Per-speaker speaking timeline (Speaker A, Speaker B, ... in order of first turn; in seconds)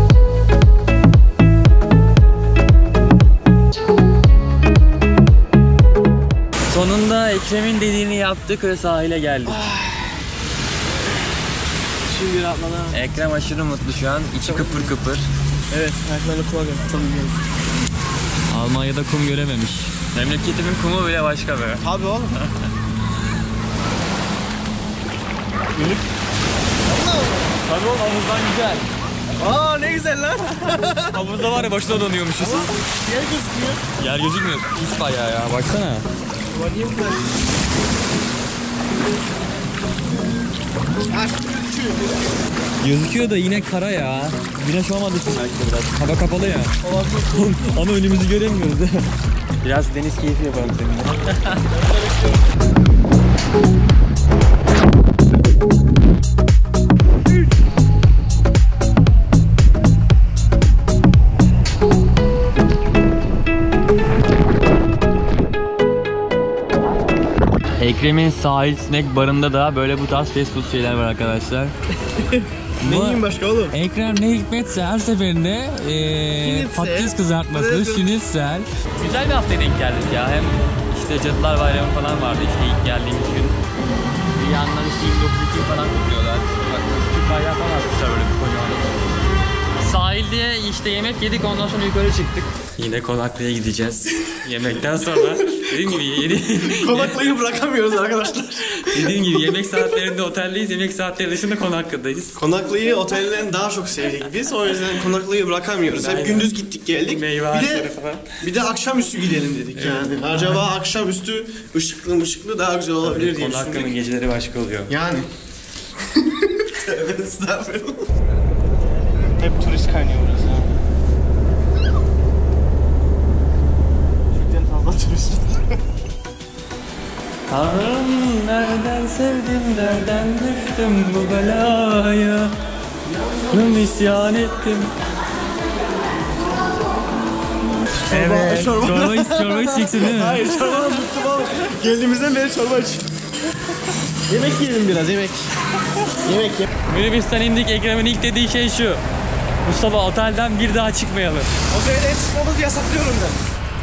Speaker A: 6.7-9.6, 12.9-15.3, 18.5-21.8, 27.7-28.9, 31.1-32.7, 34.0-36.1, 42.8-46.8, 47.3-49.1, 49.6-51.6, 67.8-71.7, 72.8-83.6, 84.4-89.0, 89.8-97.2, 98.8-102.4, 106.0-106.5, 107.0-108.3, 109.8-110.6, 113.0-115.0, 127.5-132.6, 133.5-134.9, 138.1-140.7, 146.9-149.0, 149.6-151.5
Speaker B: 9.5-10.2, 12.1-13.0, 14.4-14.9, 15.7-17.4, 21.8-22.3, 25.8-26.0, 26.9-27.5, 29.4-31.2, 32.4-33.8, 36.5-37.4, 41.1-42.2, 46.8-47.5, 51.0-52.4, 72.2-73.8, 76.4-78.1, 95.5-99.9, 102.4-114.0, 114.9-115.3, 116.2-118.1, 119.4-120.7, 124.3-125.8, 133.2-133.6, 138.0-143.1, 144.3-145.5, 146.2-146.7, 151.7-153.4